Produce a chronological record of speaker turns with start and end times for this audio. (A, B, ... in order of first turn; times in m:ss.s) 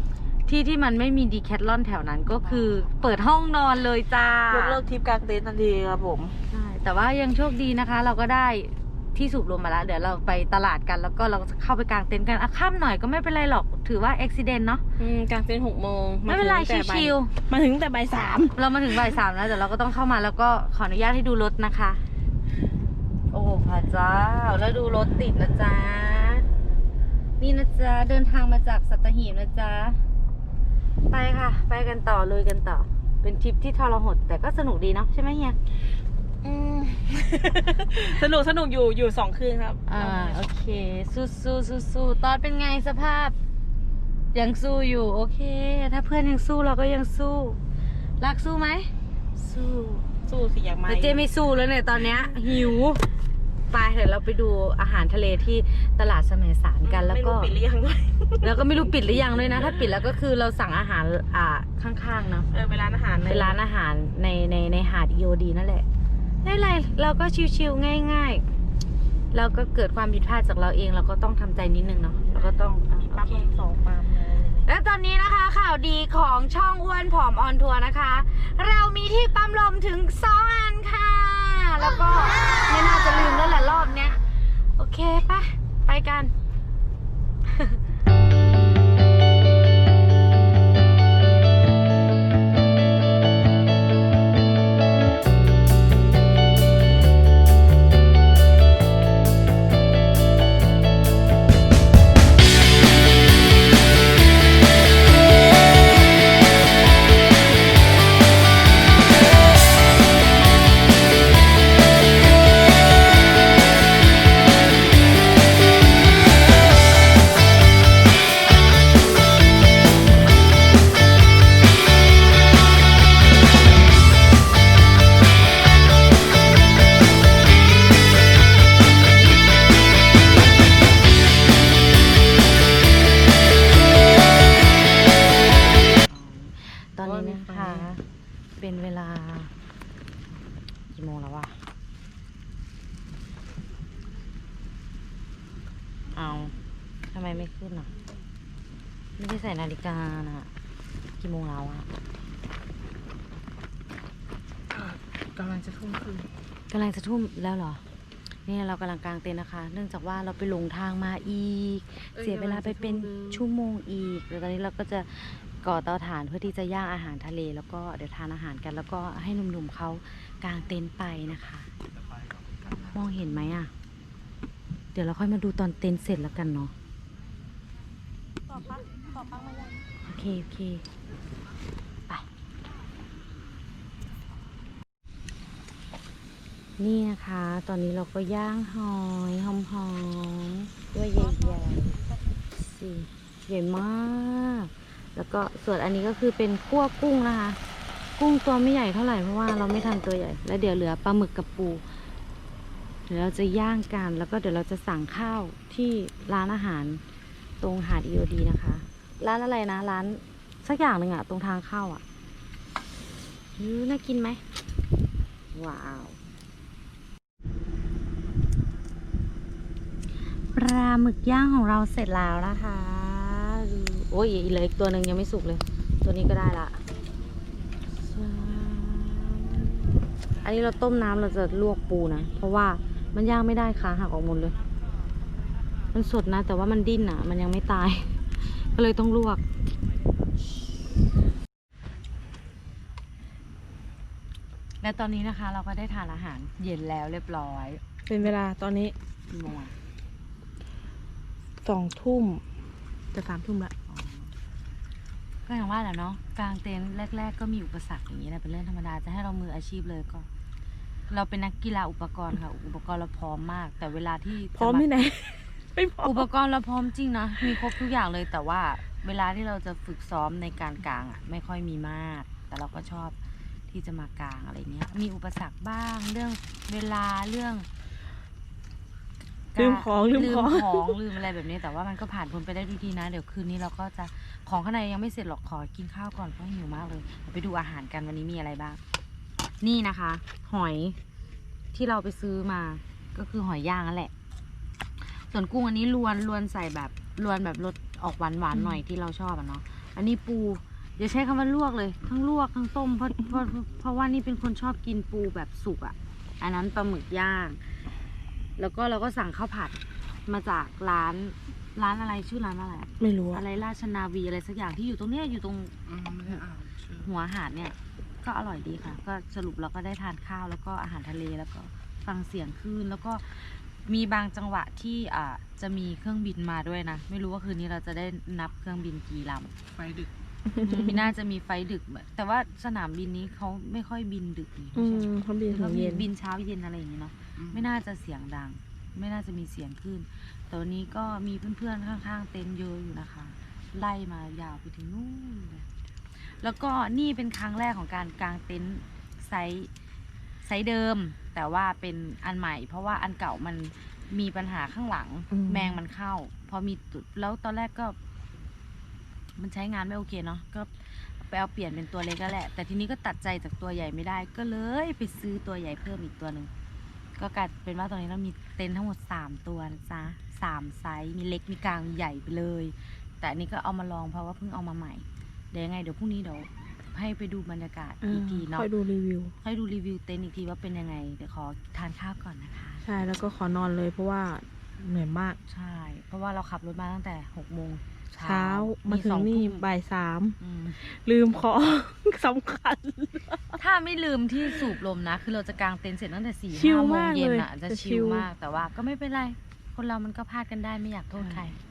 0:00.5-0:04.8 A
0:04.5-0:06.4 B
0:06.5-0:14.8 A
0:15.0-0:18.6 B
0:16.3-0:17.3 A
0:18.6-0:22.0 A
0:23.3-0:26.5 A
0:27.4-0:30.0 A
0:31.1-0:35.6 A
0:36.4-0:40.4 B
0:39.9-0:43.4 A
0:44.3-0:47.6 A
0:48.2-0:50.0 A
0:50.2-0:51.3 B
0:50.9-0:53.0 A
0:53.7-0:57.5 A
0:56.8-0:59.8 B
0:58.4-1:02.5 A
1:02.5-1:03.6 B
1:03.2-1:05.9 A
1:06.4-1:08.4 A
1:09.3-1:13.5 A
1:12.3-1:14.7 B
1:14.6-1:26.3 A
2:16.1-2:18.0 A
2:18.6-2:19.5 A
2:20.9-2:21.6 A
2:26.1-2:26.5 A
2:27.1-2:27.9 A
2:29.2-2:30.5 A
2:31.2-2:31.9 A
2:34.8-2:36.3 C
2:36.7-2:37.8 A
2:38.5-2:51.7 A
2:42.2-2:43.3 C
2:52.7-2:53.7 A
2:55.0-2:56.7 A
2:58.5-2:59.8 B
3:00.1-3:00.9 A
3:06.8-3:12.0 A
3:12.6-3:17.6 A
3:18.2-3:21.8 A
3:23.1-3:27.0 A
3:27.6-3:32.0 A
3:33.6-3:34.4 A
3:35.5-3:36.2 A
3:40.5-3:46.8 A
3:48.0-3:54.6 A
3:55.9-3:59.4 A
4:04.8-4:07.8 A
4:08.1-4:08.9 B
4:09.3-4:09.7 A
4:11.6-4:12.4 B
4:13.1-4:13.7 B
4:13.9-4:14.3 A
4:15.5-4:20.3 A
4:21.1-4:24.9 A
4:24.5-4:26.3 B
4:26.0-4:33.2 A
4:33.7-4:37.7 A
4:39.6-4:48.8 A
4:39.6-4:41.0 B
4:49.6-4:51.0 A
4:51.7-4:54.1 A
4:55.0-5:07.6 A
5:08.6-5:29.5 A
5:13.0-5:13.4 B
5:30.5-5:49.7 A
5:34.8-5:36.1 B
5:50.4-5:58.0 A
5:55.3-5:55.8 B
5:59.4-6:06.5 A
6:07.2-6:18.7 A
6:18.0-6:19.3 B
6:19.4-6:22.8 A
6:22.8-6:25.4 B
6:25.5-6:29.7 A
6:28.2-6:33.6 B
6:30.4-6:30.8 A
6:33.5-6:41.6 A
6:36.5-6:38.3 B